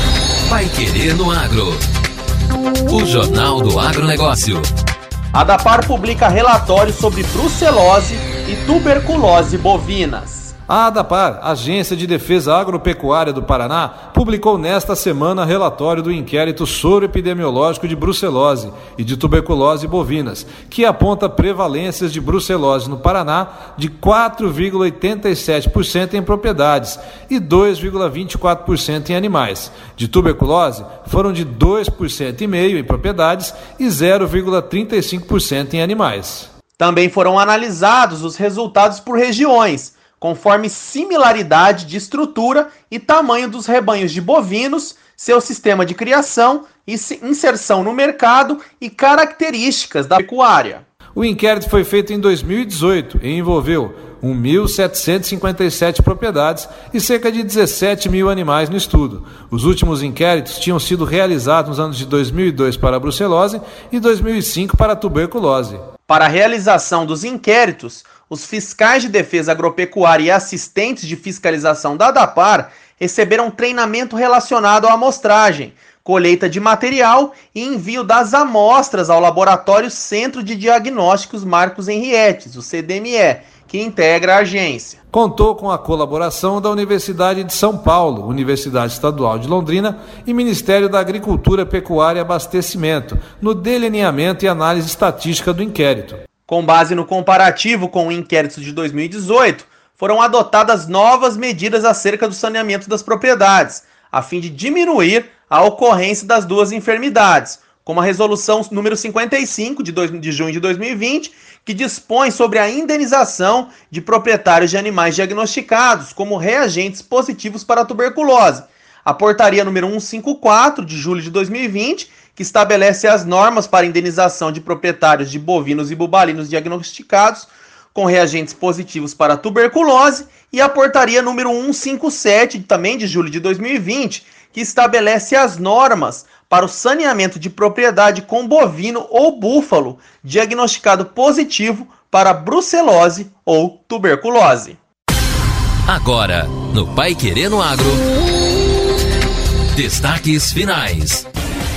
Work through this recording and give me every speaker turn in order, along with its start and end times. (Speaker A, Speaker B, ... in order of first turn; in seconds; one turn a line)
Speaker A: 0.5-1.8
Speaker A: 2.9-4.7
Speaker B: 5.3-10.5
Speaker C: 10.7-36.5
Speaker B: 36.8-50.9
Speaker C: 51.1-65.8
Speaker B: 66.1-85.0
Speaker C: 85.1-96.2
Speaker B: 96.5-144.8
Speaker A: 145.9-148.0
Speaker A: 149.7-151.2